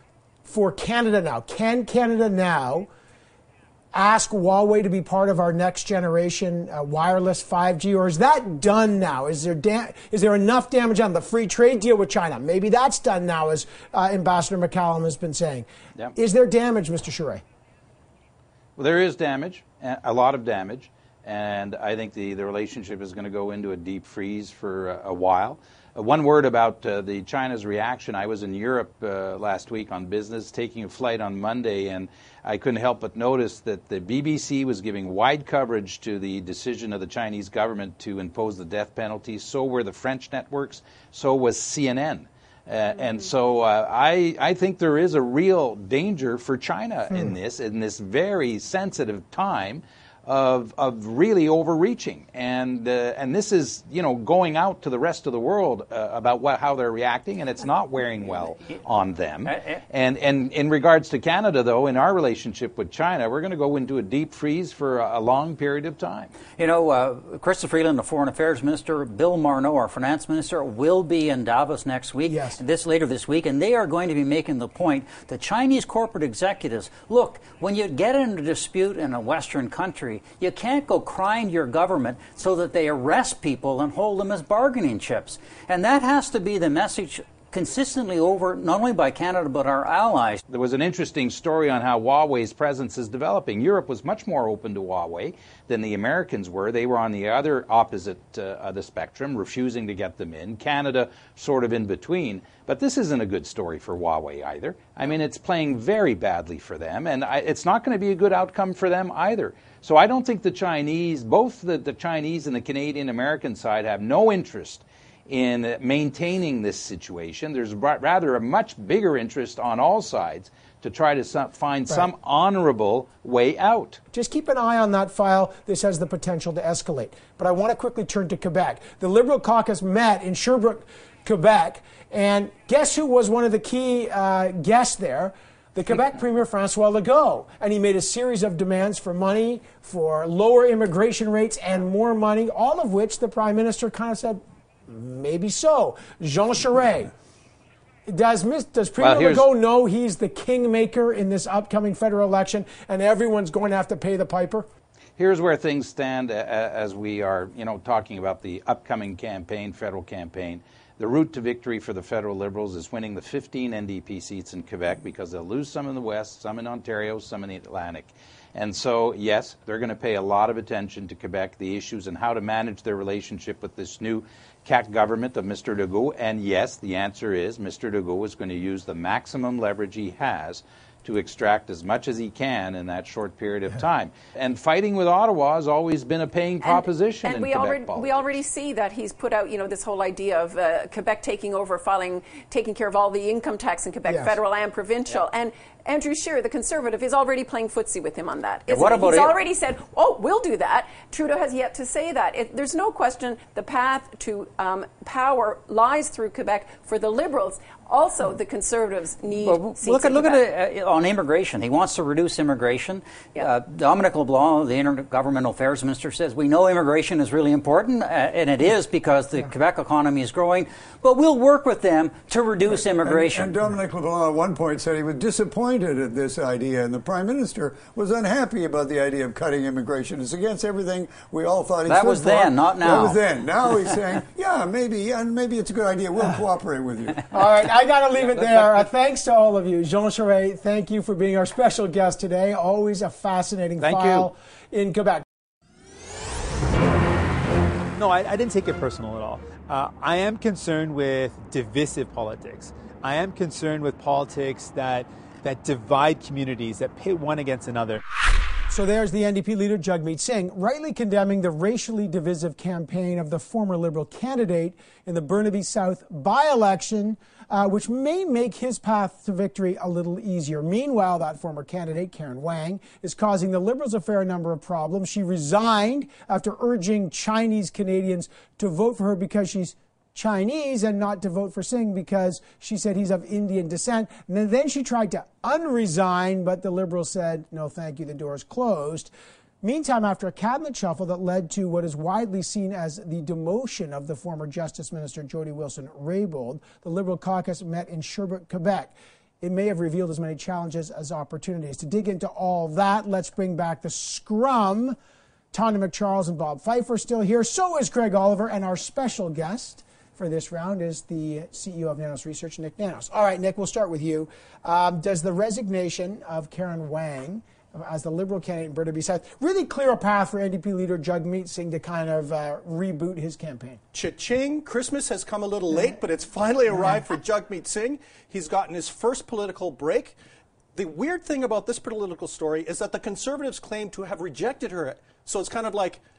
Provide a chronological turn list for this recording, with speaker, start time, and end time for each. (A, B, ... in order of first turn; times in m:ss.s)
0:00.4-0:02.9 A
0:03.9-0:17.4 A
0:18.8-1:06.3 B
0:59.5-0:59.8 C
1:06.5-1:30.4 C
1:12.3-1:12.6 A
1:30.5-2:04.0 B
2:04.1-2:27.1 A
2:28.1-2:34.7 A
2:29.0-2:29.5 B
2:35.2-3:08.3 B
3:06.6-3:30.4 D
3:14.1-3:14.4 A
3:18.7-3:19.4 C
3:29.4-3:43.5 C
3:42.7-3:57.3 E
3:51.9-3:53.2 C
3:57.3-4:05.2 A
4:03.8-4:04.3 B
4:07.9-4:18.0 F
4:18.7-4:49.1 A
4:49.6-5:05.0 A
5:05.5-5:23.8 A
5:23.9-5:30.2 G
5:30.7-5:36.0 G